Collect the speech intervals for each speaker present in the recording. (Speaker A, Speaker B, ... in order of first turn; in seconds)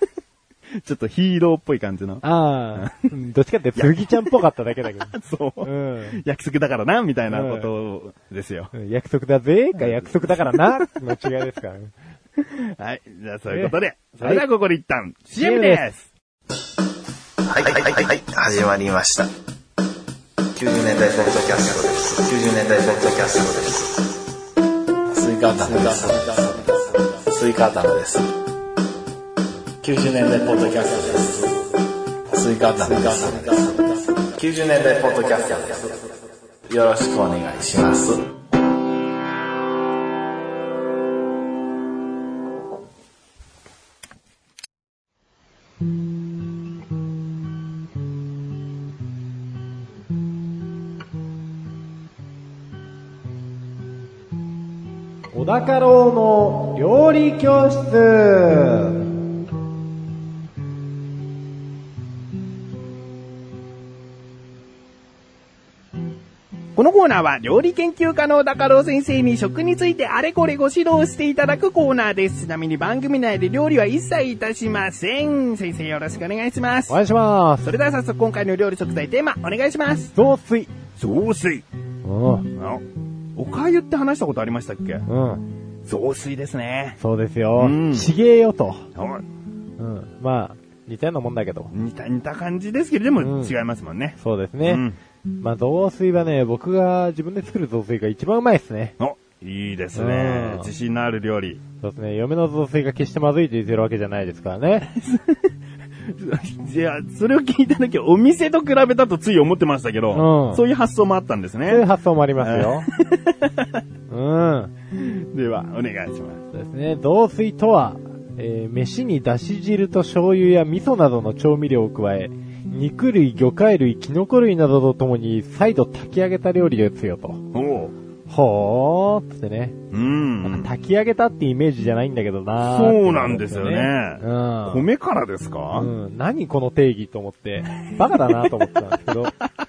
Speaker A: 0.7-2.2, 2.8-3.1, 3.8-4.3, 5.1-8.7, 9.8-10.8, 12.4-16.1, 66.7-77.0, 77.6-80.1, 81.0-81.6, 82.5-82.8, 83.3-85.0, 85.8-87.0, 87.6-88.1, 88.9-89.2, 91.7-95.0, 99.0-101.6, 104.8-105.5, 106.0-111.8, 112.4-113.8, 114.9-116.4, 127.5-127.9, 129.9-130.7, 132.6-135.9
Speaker B: 2.2-6.2, 7.3-7.7, 8.7-11.9, 13.5-14.4, 15.3-15.8, 55.3-59.1, 76.9-77.7, 80.1-80.7, 82.0-82.5, 85.0-85.5, 87.0-88.9, 89.8-91.7, 93.2-93.5, 94.2-94.8, 95.4-99.0, 99.9-100.7, 101.8-104.9, 110.1-110.6, 111.7-112.9, 114.1-114.7, 116.5-127.4, 128.3-129.8, 130.4-134.9, 135.7-139.3
Speaker C: 17.5-19.3, 20.5-24.1, 25.1-28.3, 29.8-31.7, 32.3-36.1, 36.7-38.3